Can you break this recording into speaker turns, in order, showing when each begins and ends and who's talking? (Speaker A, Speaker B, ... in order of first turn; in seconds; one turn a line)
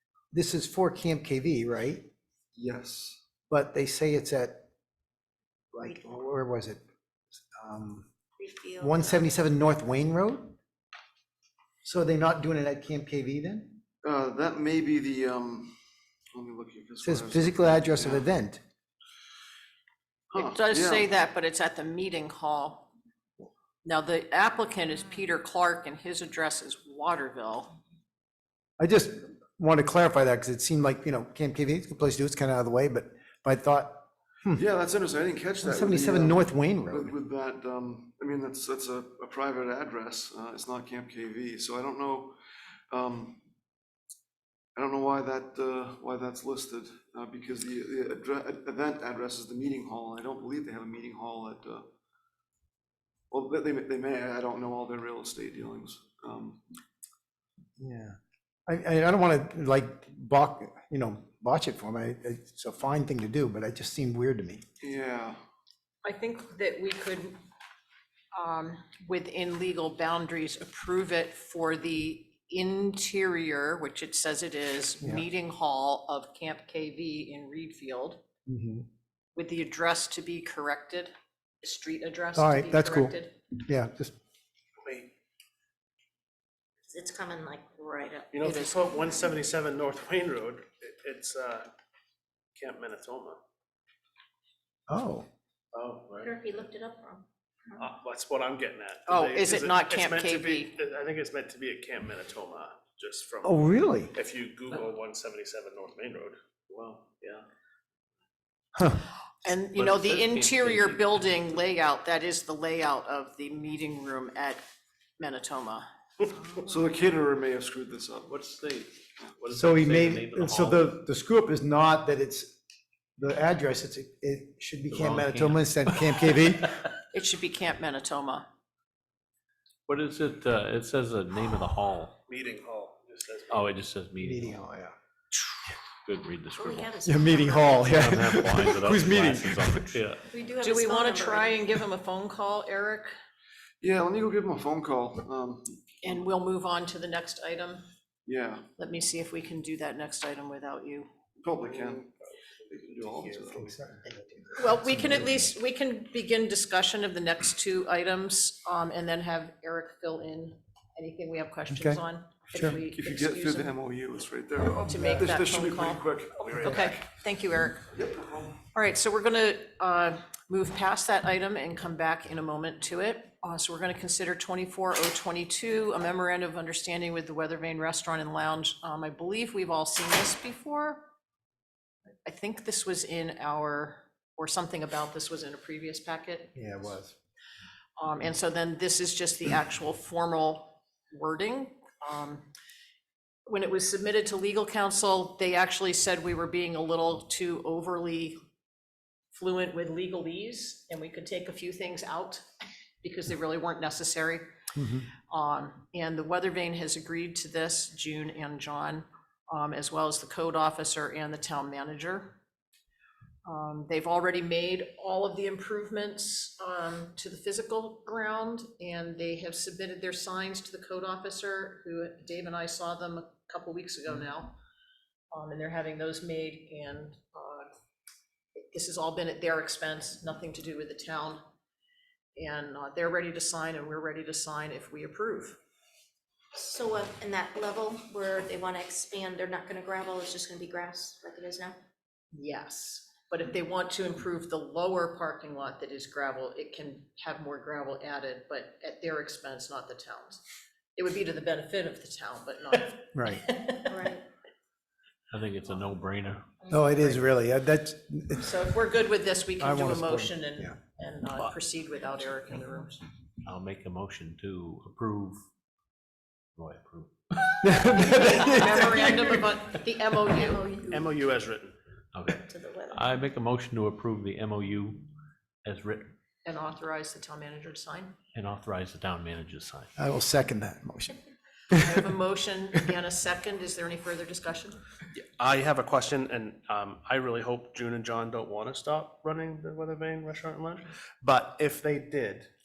Speaker A: 0.3-2.1
Speaker B: 2.6-3.2
Speaker A: 3.5-4.7
Speaker A: 5.7-6.8
Speaker A: 7.5-8.1
Speaker C: 8.4-9.2
Speaker A: 8.8-10.6
Speaker A: 11.8-13.8
Speaker B: 14.0-15.8
Speaker B: 16.4-18.3
Speaker A: 17.1-18.6
Speaker B: 20.3-21.1
Speaker D: 20.4-22.9
Speaker D: 23.8-27.7
Speaker A: 28.8-34.6
Speaker B: 34.6-42.4
Speaker A: 35.6-37.1
Speaker B: 42.9-43.4
Speaker B: 44.8-51.9
Speaker B: 53.3-56.6
Speaker A: 57.8-58.2
Speaker A: 58.7-64.6
Speaker B: 64.8-65.4
Speaker D: 66.0-67.4
Speaker D: 68.3-78.2
Speaker A: 78.5-78.9
Speaker D: 79.3-83.4
Speaker A: 82.4-84.1
Speaker E: 84.8-85.1
Speaker C: 86.9-89.3
Speaker E: 88.3-91.7
Speaker D: 88.4-88.8
Speaker E: 92.6-93.4
Speaker A: 94.9-95.3
Speaker E: 95.7-96.4
Speaker C: 96.2-97.9
Speaker E: 97.8-107.5
Speaker D: 99.1-100.7
Speaker A: 103.4-104.1
Speaker D: 109.4-114.6
Speaker F: 109.8-111.2
Speaker D: 115.2-115.9
Speaker B: 116.6-118.4
Speaker F: 118.3-120.9
Speaker A: 119.5-122.6
Speaker A: 123.2-126.8
Speaker F: 124.9-126.2
Speaker D: 127.1-128.5
Speaker F: 129.9-132.2
Speaker E: 132.3-133.6
Speaker F: 133.5-134.6
Speaker A: 134.2-134.9
Speaker F: 136.1-136.9
Speaker C: 136.6-138.0
Speaker A: 137.1-139.8
Speaker F: 137.8-140.2
Speaker C: 140.3-141.8
Speaker D: 140.6-143.1
Speaker B: 143.8-145.8
Speaker D: 146.0-147.8
Speaker B: 148.3-148.7
Speaker D: 148.8-151.1
Speaker B: 151.4-152.1
Speaker E: 151.7-152.0
Speaker B: 152.7-153.6
Speaker E: 153.0-154.2
Speaker A: 153.5-155.3
Speaker D: 154.6-163.8
Speaker A: 161.7-162.0
Speaker B: 162.7-167.0
Speaker D: 164.8-167.9
Speaker B: 167.9-168.6
Speaker D: 168.7-181.1
Speaker D: 182.2-187.0
Speaker A: 186.6-187.1
Speaker D: 188.0-192.5
Speaker D: 193.5-198.4
Speaker D: 199.3-202.5
Speaker D: 203.0-204.5
Speaker A: 204.8-205.1
Speaker D: 205.3-212.4
Speaker D: 213.4-224.6
Speaker D: 225.3-227.7
Speaker D: 228.6-231.4
Speaker D: 232.3-235.6
Speaker C: 236.5-241.8
Speaker D: 242.3-250.4
Speaker D: 251.0-254.1
Speaker A: 253.2-253.5
Speaker C: 253.9-254.2
Speaker F: 255.3-256.7
Speaker A: 256.7-258.6
Speaker D: 258.4-263.0
Speaker A: 259.6-260.8
Speaker F: 263.4-265.4
Speaker F: 266.6-267.1
Speaker A: 267.6-269.3
Speaker D: 268.0-270.7
Speaker C: 270.4-271.1
Speaker E: 270.9-271.8
Speaker F: 272.1-275.1
Speaker C: 272.3-273.0
Speaker F: 275.6-276.1
Speaker D: 276.4-278.2
Speaker F: 278.3-279.9
Speaker A: 280.0-281.2
Speaker D: 281.7-284.8
Speaker E: 285.1-292.5